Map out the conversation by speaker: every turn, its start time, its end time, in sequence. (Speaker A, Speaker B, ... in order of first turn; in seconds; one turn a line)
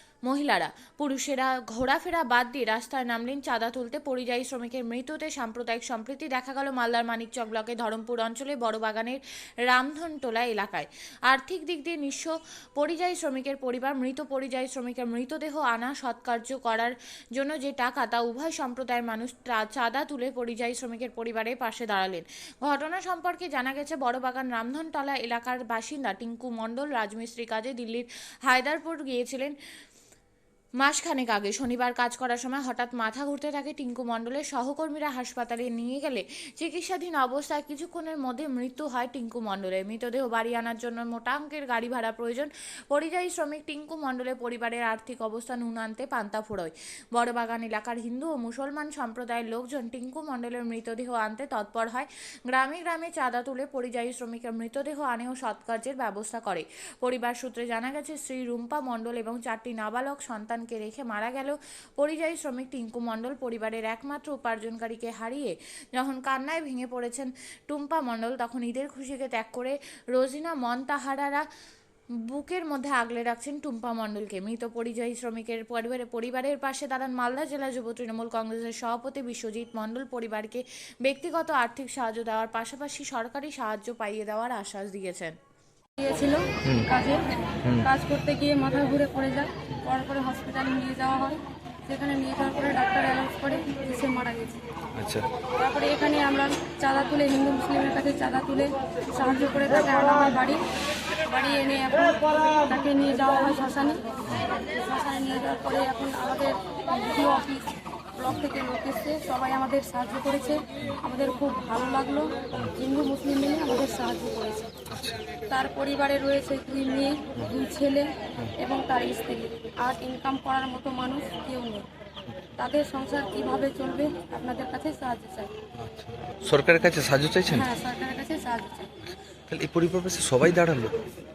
Speaker A: 0.2-29.6
Speaker A: 30.8-71.4
Speaker A: 72.3-85.3
Speaker B: 86.0-94.6
Speaker C: 95.0-95.3
Speaker B: 95.6-100.6
Speaker B: 101.2-104.0
Speaker B: 104.8-107.7
Speaker B: 108.2-114.7
Speaker C: 114.9-115.2
Speaker B: 115.5-121.8
Speaker B: 122.6-125.5
Speaker C: 125.8-127.7
Speaker B: 127.5-128.9
Speaker C: 129.1-131.0